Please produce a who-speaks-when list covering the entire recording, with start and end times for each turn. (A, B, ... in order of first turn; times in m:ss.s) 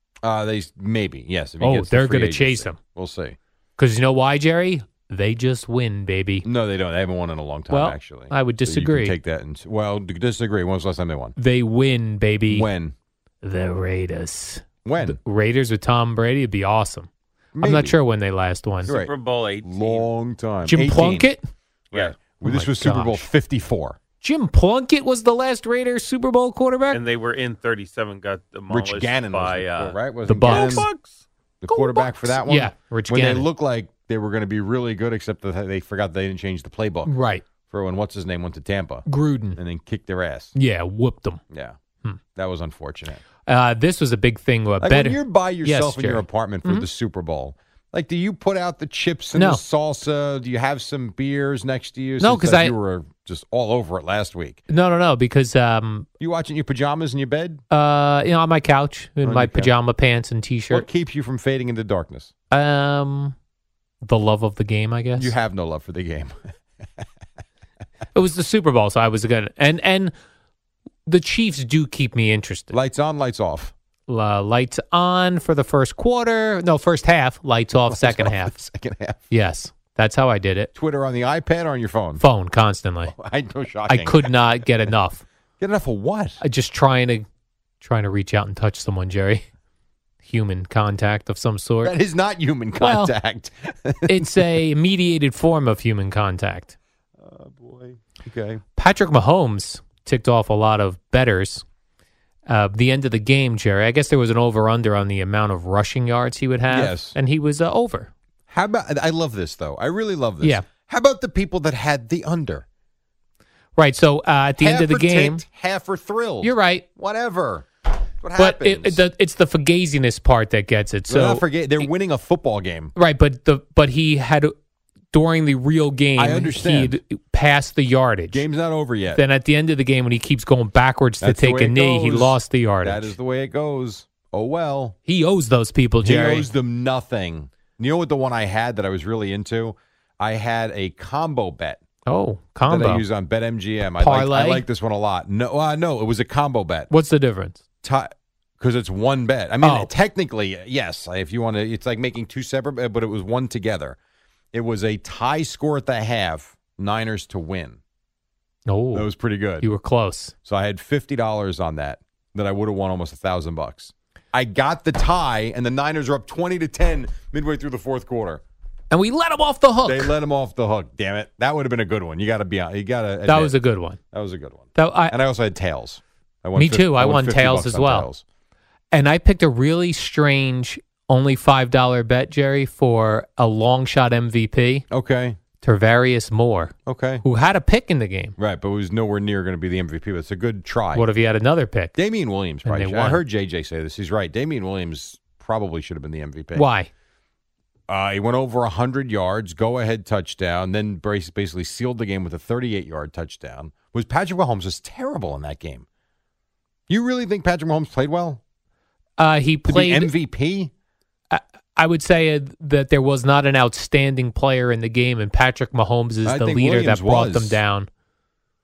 0:00.2-0:03.4 A
0:01.6-0:02.8 B
0:03.8-0:06.5 B
0:06.4-0:11.4 A
0:07.7-0:09.2 B
0:11.4-0:12.7 B
0:12.5-0:12.9 A
0:13.4-0:19.0 B
0:14.8-0:15.2 A
0:17.6-0:18.0 A
0:18.8-0:20.1 C
0:18.9-0:21.3 A
0:20.7-0:21.4 B
0:21.9-0:22.2 C
0:21.9-0:24.0 A
0:22.4-0:23.2 B
0:24.2-0:27.0 B
0:26.9-0:31.2 C
0:28.7-0:30.9 A
0:30.3-0:30.9 B
0:31.6-0:37.2 A
0:31.7-0:33.5 B
0:37.0-0:37.4 B
0:37.7-0:40.5 A
0:39.1-0:39.6 B
0:40.6-0:41.4 B
0:41.5-0:41.8 A
0:42.4-0:43.2 A
0:43.5-0:46.9 B
0:44.8-0:54.6 A
0:49.3-0:49.6 B
0:52.2-0:52.7 B
0:54.7-0:56.1 B
0:56.2-0:57.6 A
0:57.7-1:00.9 B
0:59.2-0:59.7 A
1:00.7-1:02.3 A
1:02.5-1:03.4 B
1:04.0-1:05.3 B
1:05.2-1:06.4 A
1:08.2-1:10.1 B
1:11.1-1:12.8 B
1:12.7-1:13.7 A
1:14.1-1:18.5 B
1:17.9-1:19.2 A
1:19.3-1:20.7 B
1:20.8-1:22.2 A
1:22.2-1:23.1 B
1:23.1-1:24.3 A
1:23.9-1:25.2 B
1:25.6-1:26.4 A
1:26.4-1:27.2 B
1:27.8-1:29.4 B
1:30.2-1:32.0 B
1:31.8-1:34.5 A
1:32.8-1:33.1 B
1:34.1-1:36.8 B
1:37.2-1:38.6 A
1:38.8-1:41.6 B
1:42.5-1:48.1 B
1:46.7-1:47.2 A
1:48.5-1:52.6 A
1:53.8-1:55.4 B
1:54.6-1:57.7 A
1:56.4-1:56.8 B
1:58.2-1:59.0 A
1:58.4-2:01.9 B
2:01.1-2:02.9 A
2:03.0-2:04.5 B
2:05.1-2:08.4 B
2:06.2-2:07.0 A
2:08.3-2:09.2 A
2:09.1-2:13.2 B
2:11.2-2:15.0 A
2:15.1-2:16.5 B
2:16.0-2:21.8 A
2:22.1-2:23.0 B
2:22.7-2:26.9 A
2:24.0-2:24.6 B
2:26.9-2:27.6 B
2:27.8-2:34.0 A
2:29.6-2:29.9 B
2:34.5-2:37.8 A
2:38.7-2:39.1 B
2:38.9-2:39.7 A
2:39.6-2:40.3 B
2:40.4-2:48.4 A
2:48.9-2:50.2 B
2:49.9-2:53.6 A
2:53.3-2:54.0 B
2:54.1-2:58.2 A
2:54.8-2:55.1 B
2:56.6-2:58.1 B
2:58.9-3:04.8 B
3:04.9-3:05.4 A
3:05.6-3:08.4 B
3:06.9-3:07.2 A
3:08.4-3:11.1 A
3:10.9-3:12.0 B
3:12.0-3:16.7 A
3:12.6-3:13.2 B
3:16.6-3:16.9 B
3:17.9-3:25.9 A
3:26.9-3:28.4 A
3:29.2-3:30.1 B
3:29.7-3:30.7 A
3:31.3-3:37.9 B
3:36.2-3:37.6 A